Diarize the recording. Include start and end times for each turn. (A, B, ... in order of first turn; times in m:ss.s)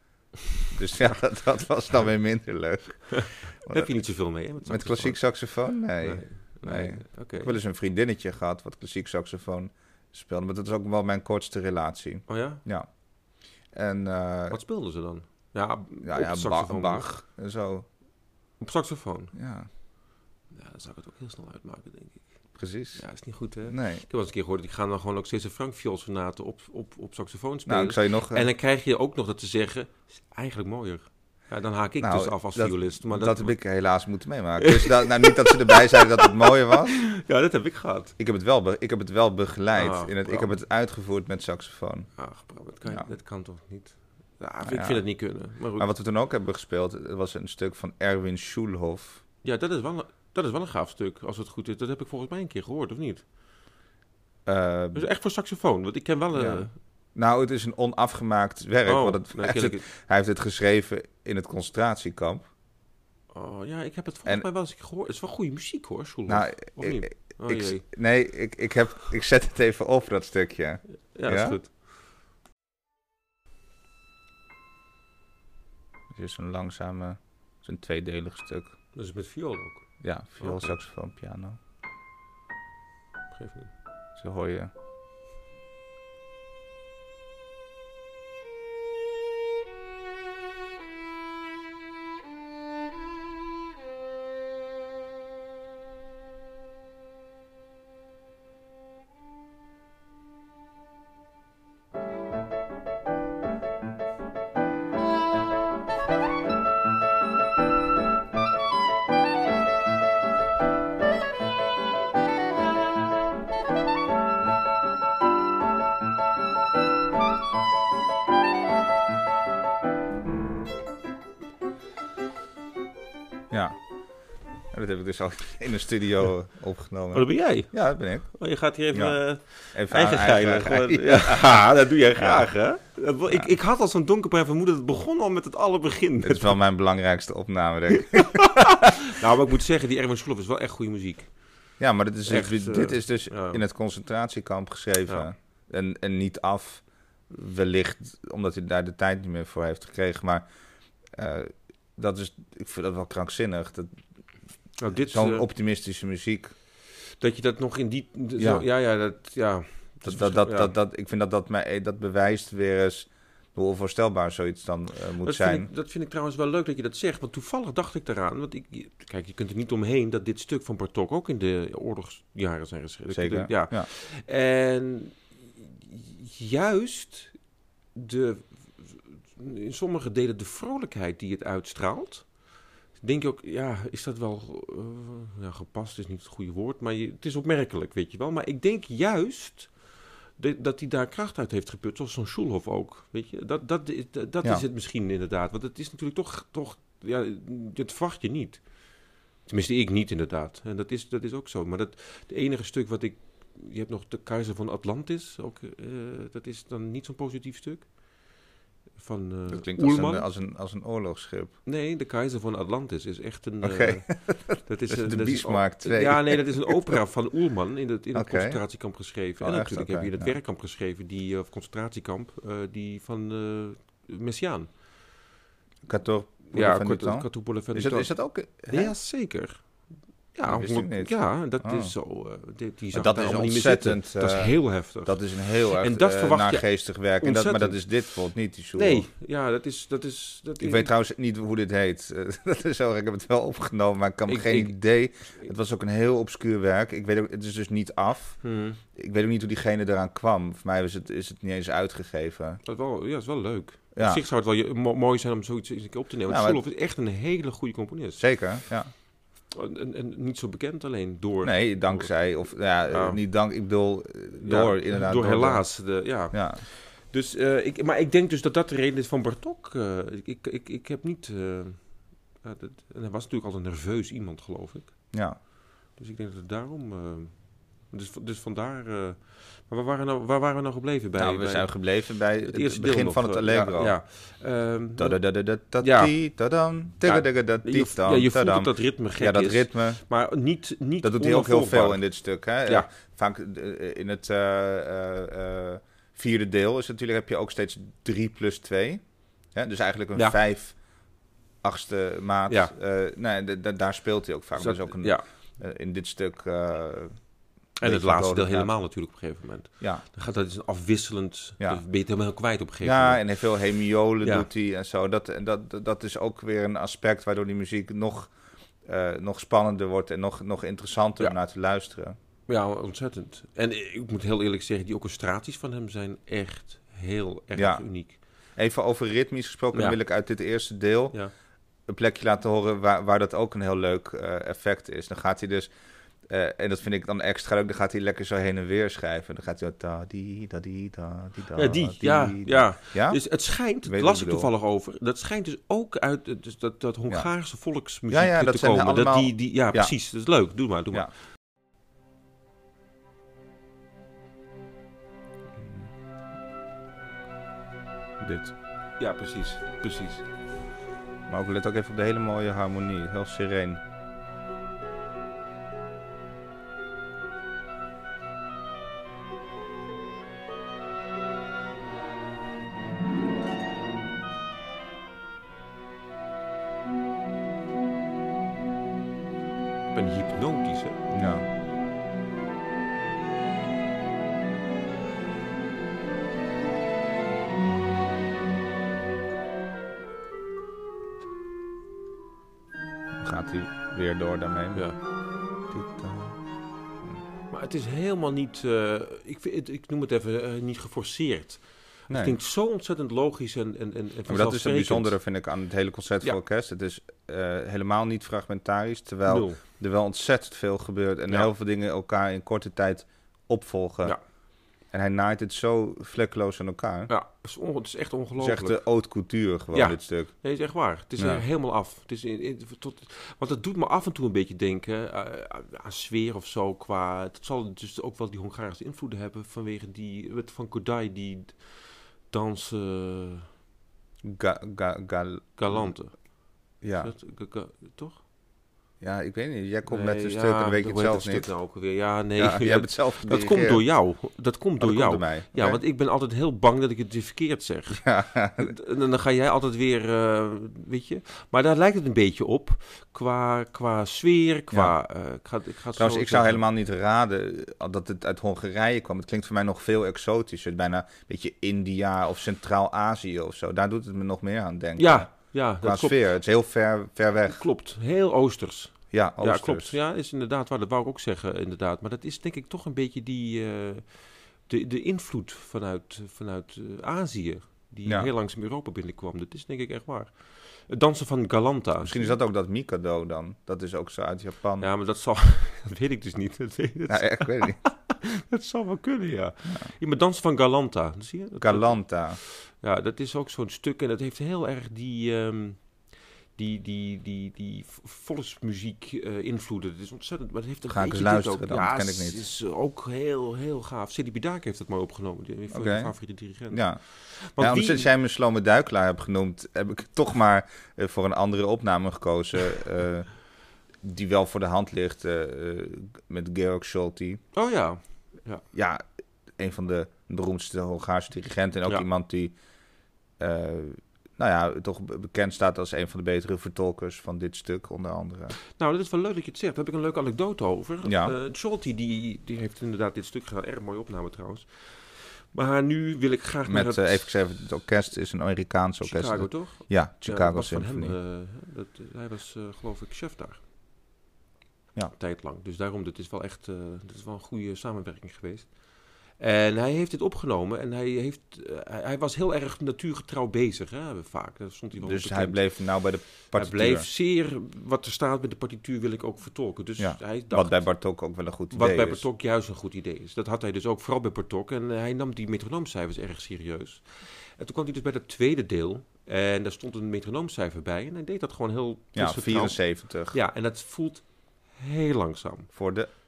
0:00.7-0:03.9 A
0:03.2-0:05.2 B
0:04.6-0:13.0 A
0:06.0-0:07.6 B
0:12.3-0:12.6 B
0:13.7-0:14.6 A
0:14.5-0:17.0 B
0:16.0-0:17.9 A
0:18.6-0:19.3 B
0:19.3-0:19.7 A
0:20.5-0:22.4 B
0:22.6-0:23.1 A
0:22.9-0:33.6 B
0:23.6-0:24.0 A
0:27.7-0:28.5 A
0:32.0-0:37.0 A
0:34.6-0:38.1 B
0:38.2-0:42.1 A
0:39.8-0:40.6 B
0:42.2-0:45.9 B
0:44.6-0:45.1 A
0:45.8-0:49.2 A
0:49.4-0:53.2 B
0:54.4-0:55.0 A
0:54.9-0:56.7 B
0:56.3-1:02.5 A
0:58.8-0:59.8 B
1:03.3-1:07.8 B
1:06.3-1:11.6 A
1:11.1-1:11.7 B
1:16.1-1:18.7 A
1:18.9-1:19.9 B
1:20.0-1:21.6 A
1:20.4-1:20.7 B
1:23.3-1:23.7 B
1:24.2-1:24.7 A
2:03.5-2:03.8 A
2:04.7-2:08.4 A
2:07.1-2:16.6 B
2:08.9-2:09.2 A
2:09.7-2:11.6 A
2:12.2-2:12.4 A
2:16.2-2:18.9 A
2:17.9-2:21.3 B
2:21.8-2:30.4 A
2:22.3-2:23.6 B
2:31.1-2:34.0 A
2:34.8-2:35.5 B
2:35.1-2:36.5 A
2:37.2-2:40.7 B
2:38.4-2:38.6 A
2:40.0-2:45.7 A
2:45.2-2:57.4 B
2:53.1-2:53.9 A
2:57.9-3:02.4 B
3:03.0-3:18.6 B
3:19.4-3:27.9 B
3:29.0-3:30.2 B
3:29.5-3:31.6 A
3:31.6-3:44.7 B
3:33.6-3:36.9 A
3:38.1-3:38.6 A
3:39.4-3:40.3 A
3:45.8-3:48.9 A
3:46.5-3:56.7 B
3:50.4-3:51.9 A
3:52.9-3:59.1 A
3:57.2-3:57.9 B
3:58.7-4:00.9 B
4:00.6-4:08.4 A
4:04.3-4:04.8 B
4:08.4-4:08.8 B
4:08.9-4:12.6 A
4:12.6-4:18.2 B
4:13.9-4:14.2 A
4:16.3-4:16.6 A
4:18.2-4:18.9 A
4:19.5-4:22.2 B
4:21.4-4:26.6 A
4:22.9-4:23.2 B
4:24.4-4:35.1 B
4:35.1-4:35.4 A
4:36.0-4:41.8 B
4:41.2-4:44.0 A
4:42.4-4:45.2 B
4:45.0-4:50.0 A
4:45.8-4:46.1 B
4:47.0-4:52.0 B
4:51.0-5:00.8 A
5:01.6-5:07.3 A
5:02.5-5:02.7 B
5:04.6-5:05.2 B
5:07.8-5:13.2 B
5:07.8-5:08.7 A
5:12.8-5:18.3 A
5:18.8-5:22.2 A
5:22.5-5:28.2 B
5:27.5-5:27.8 A
5:28.5-5:31.2 A
5:31.9-5:35.7 A
5:36.3-5:43.2 A
5:41.5-5:51.1 B
5:43.8-5:44.5 A
5:48.1-5:49.9 A
5:55.6-5:55.9 A
5:58.2-5:58.5 A
5:59.0-6:00.2 B
6:01.3-6:03.8 A
6:19.9-6:21.0 B
6:21.1-6:21.4 A
6:33.2-6:36.4 A
6:34.7-6:35.0 B
6:37.5-6:45.2 B
6:42.1-6:42.4 A
6:44.3-6:54.2 A
6:49.2-6:49.6 B
6:54.9-6:57.1 A
6:57.1-6:58.8 B
6:58.4-7:00.3 A
6:59.7-7:13.4 B
7:01.2-7:01.4 A
7:14.2-7:16.0 A
7:15.6-7:18.2 B
7:16.8-7:17.1 A
7:19.0-7:21.6 A
7:19.8-7:36.6 B
7:22.4-7:23.8 A
7:24.8-7:25.8 A
7:27.9-7:28.7 A
7:36.0-7:47.6 A
7:45.0-7:46.2 B
7:47.5-8:02.4 B
7:49.1-7:49.9 A
8:02.0-8:04.9 A
8:04.8-8:28.1 B
8:07.1-8:07.8 A
8:11.6-8:12.4 A
8:20.9-8:22.4 A
8:25.7-8:26.2 A
8:26.7-8:33.3 A
8:34.0-8:37.4 A
8:37.5-8:38.6 B
8:38.7-8:39.0 A
8:39.6-8:42.6 A
8:43.4-8:48.5 A
8:48.7-8:57.4 B
8:51.0-8:51.3 A
8:56.7-9:01.2 A
8:59.0-9:03.6 B
9:05.1-9:08.8 B
9:09.3-9:15.8 B
9:15.0-9:17.1 A
9:16.4-9:20.9 B
9:20.0-9:22.2 A
9:21.7-9:35.7 B
9:32.1-9:33.4 A
9:35.7-9:36.1 A